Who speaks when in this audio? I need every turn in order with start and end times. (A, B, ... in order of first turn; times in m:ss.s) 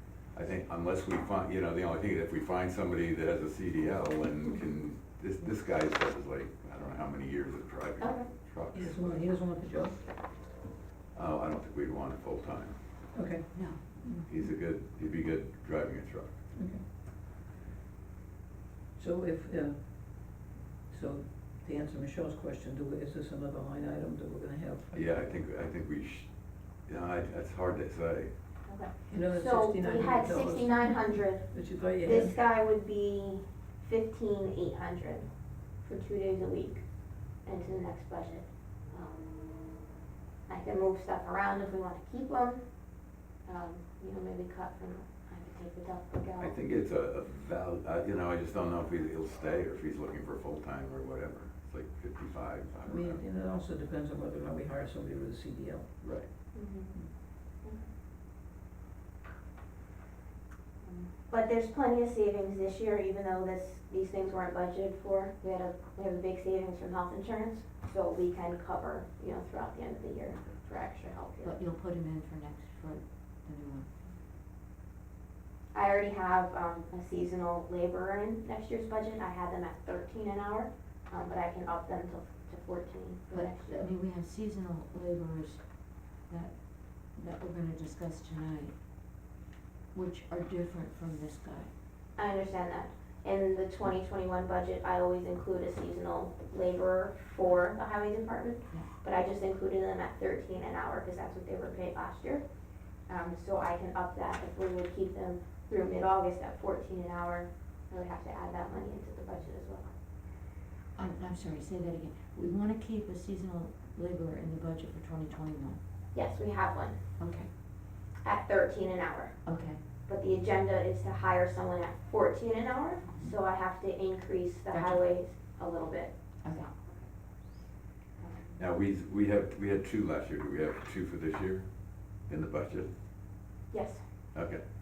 0:00.3-0:09.3 A
0:08.0-0:08.3 B
0:08.7-0:10.0 C
0:11.1-0:12.8 A
0:13.1-0:14.3 C
0:13.6-0:14.0 D
0:14.2-0:16.4 A
0:16.6-0:16.8 C
0:19.0-0:25.1 C
0:24.9-0:26.3 A
0:26.9-0:28.3 A
0:28.7-0:31.5 B
0:29.1-0:32.4 C
0:32.0-0:35.3 B
0:35.8-0:36.8 B
0:37.4-0:39.3 B
0:40.5-0:42.6 B
0:43.5-0:46.6 B
0:46.4-0:53.2 A
0:52.9-0:55.9 C
0:56.0-0:56.3 A
0:56.5-0:57.0 B
0:57.6-0:57.9 B
1:00.8-1:11.6 B
1:11.4-1:14.1 D
1:15.7-1:23.9 B
1:23.3-1:25.6 D
1:26.3-1:28.8 D
1:29.9-1:31.7 D
1:32.2-1:42.4 B
1:43.1-1:49.9 B
1:51.0-1:55.8 D
1:56.1-1:57.0 B
1:57.2-1:57.5 D
1:58.2-1:59.4 B
1:59.4-1:59.8 D
2:00.1-2:06.1 B
2:03.0-2:03.3 D
2:04.7-2:05.0 D
2:06.4-2:06.7 D
2:08.2-2:08.6 B
2:08.6-2:11.7 A
2:12.2-2:12.9 A
2:13.7-2:14.0 B
2:14.3-2:14.6 A